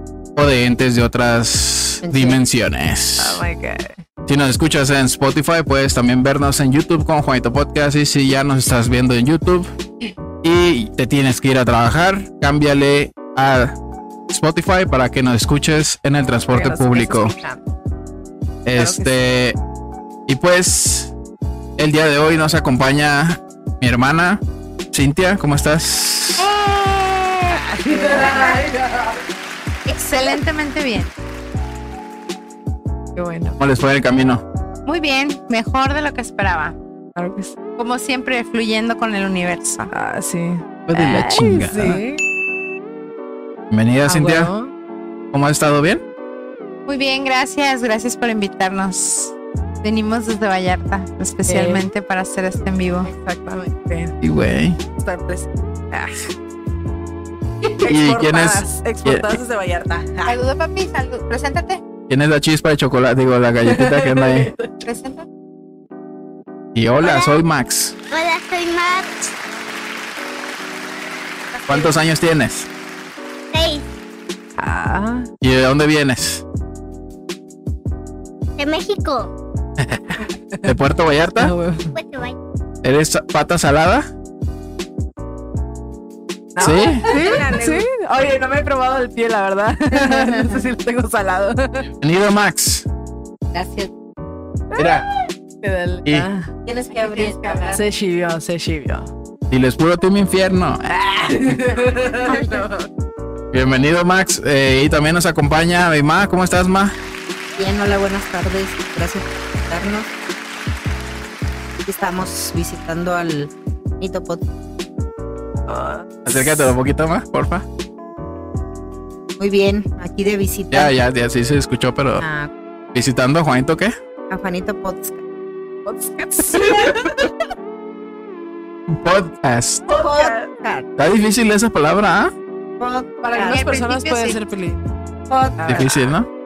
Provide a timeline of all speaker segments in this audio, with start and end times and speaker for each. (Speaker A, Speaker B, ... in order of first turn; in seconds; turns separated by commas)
Speaker A: 0.3-3.5, Speaker B: 2.0-2.4, Speaker C: 3.2-4.0, Speaker A: 4.3-9.7, Speaker A: 10.4-13.8, Speaker A: 14.3-17.3, Speaker C: 16.5-17.7, Speaker A: 18.6-19.6, Speaker C: 18.7-19.2, Speaker A: 20.3-21.1, Speaker A: 21.8-24.4, Speaker A: 24.9-26.5, Speaker D: 26.4-28.6, Speaker C: 27.5-29.2, Speaker D: 29.9-31.1, Speaker C: 33.1-33.6, Speaker A: 33.6-34.4, Speaker D: 34.9-36.8, Speaker C: 37.2-37.5, Speaker D: 37.8-39.9, Speaker C: 39.9-42.2, Speaker A: 40.9-42.0, Speaker A: 43.7-44.5, Speaker C: 44.1-44.7, Speaker A: 45.3-46.0, Speaker D: 46.9-53.1, Speaker C: 51.5-51.9, Speaker C: 53.1-54.2, Speaker A: 54.2-54.8, Speaker C: 55.0-56.3, Speaker C: 57.6-60.4, Speaker A: 57.8-59.4, Speaker D: 60.2-61.8, Speaker A: 62.1-64.5, Speaker C: 63.7-64.7, Speaker D: 64.8-65.3, Speaker A: 66.8-68.0, Speaker E: 67.0-67.4, Speaker E: 68.1-69.3, Speaker A: 71.7-72.7, Speaker E: 73.5-73.8, Speaker C: 74.6-75.3, Speaker A: 75.4-76.4, Speaker E: 78.6-79.3, Speaker A: 79.8-81.5, Speaker C: 81.4-81.9, Speaker E: 81.9-82.4, Speaker A: 82.8-84.1, Speaker C: 86.5-91.9, Speaker A: 86.6-87.1, Speaker B: 87.1-87.9, Speaker B: 89.9-90.7, Speaker A: 92.0-92.9, Speaker B: 93.5-93.9, Speaker A: 94.8-95.1, Speaker C: 95.6-96.5, Speaker B: 96.6-97.9, Speaker C: 97.6-99.1, Speaker A: 99.5-101.0, Speaker C: 101.0-102.7, Speaker B: 102.2-102.7, Speaker A: 103.5-107.0, Speaker B: 107.6-110.1, Speaker B: 111.8-114.5, Speaker C: 115.7-116.1, Speaker A: 116.2-117.7, Speaker B: 119.4-121.0, Speaker A: 120.7-122.2, Speaker B: 122.2-122.5, Speaker A: 122.9-124.0, Speaker B: 124.3-125.2, Speaker C: 125.8-127.3, Speaker A: 128.9-129.8, Speaker B: 129.9-130.9, Speaker C: 129.9-130.3, Speaker A: 131.0-132.3, Speaker B: 132.8-133.6, Speaker C: 133.2-134.8, Speaker D: 133.4-134.4, Speaker B: 135.3-136.1, Speaker C: 135.6-136.1, Speaker A: 135.7-136.3